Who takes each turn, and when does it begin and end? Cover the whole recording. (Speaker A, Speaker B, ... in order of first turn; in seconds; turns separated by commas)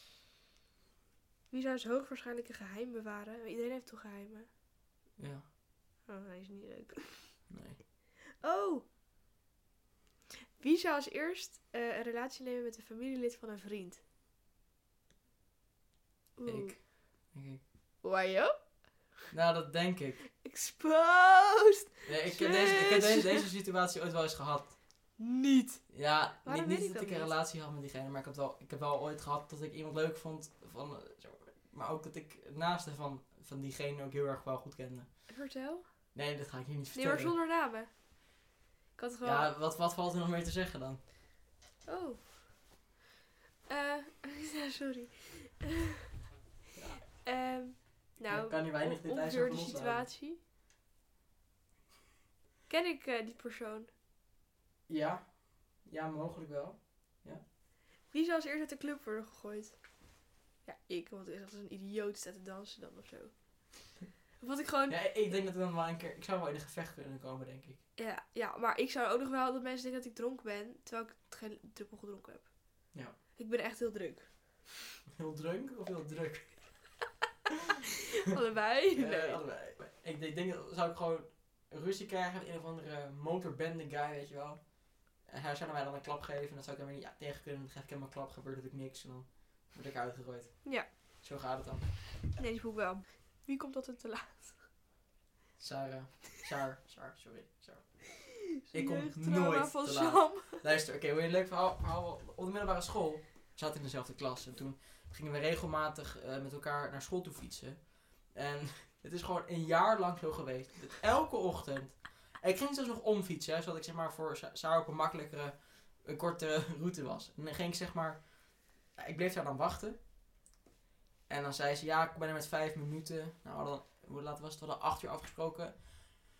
Speaker A: 1.5-4.5, Speaker B: 5.2-5.4, Speaker A: 6.1-7.4, Speaker B: 7.5-7.8, Speaker A: 8.4-8.8, Speaker A: 10.6-14.0, Speaker A: 16.4-16.8, Speaker B: 16.4-17.6, Speaker A: 18.0-18.6, Speaker B: 19.3-20.2, Speaker A: 20.4-23.5, Speaker B: 22.1-24.7, Speaker A: 25.2-25.9, Speaker B: 25.9-35.1, Speaker A: 26.4-27.3, Speaker A: 35.3-35.9, Speaker B: 36.1-37.3, Speaker A: 36.9-37.9, Speaker A: 39.0-39.5, Speaker B: 39.2-41.0, Speaker A: 41.9-42.3, Speaker A: 43.7-46.0, Speaker B: 46.8-47.0, Speaker A: 47.1-50.4, Speaker B: 48.2-50.0, Speaker A: 52.7-53.9, Speaker B: 54.9-57.4, Speaker A: 58.1-59.8, Speaker A: 60.6-63.3, Speaker A: 64.4-65.0, Speaker B: 64.9-67.8, Speaker A: 68.0-72.5, Speaker A: 73.4-74.3, Speaker B: 75.1-76.6, Speaker A: 78.1-79.4, Speaker B: 78.9-91.9, Speaker A: 92.3-94.6, Speaker B: 95.6-97.9, Speaker A: 98.2-100.6, Speaker B: 98.7-120.0, Speaker B: 121.3-125.9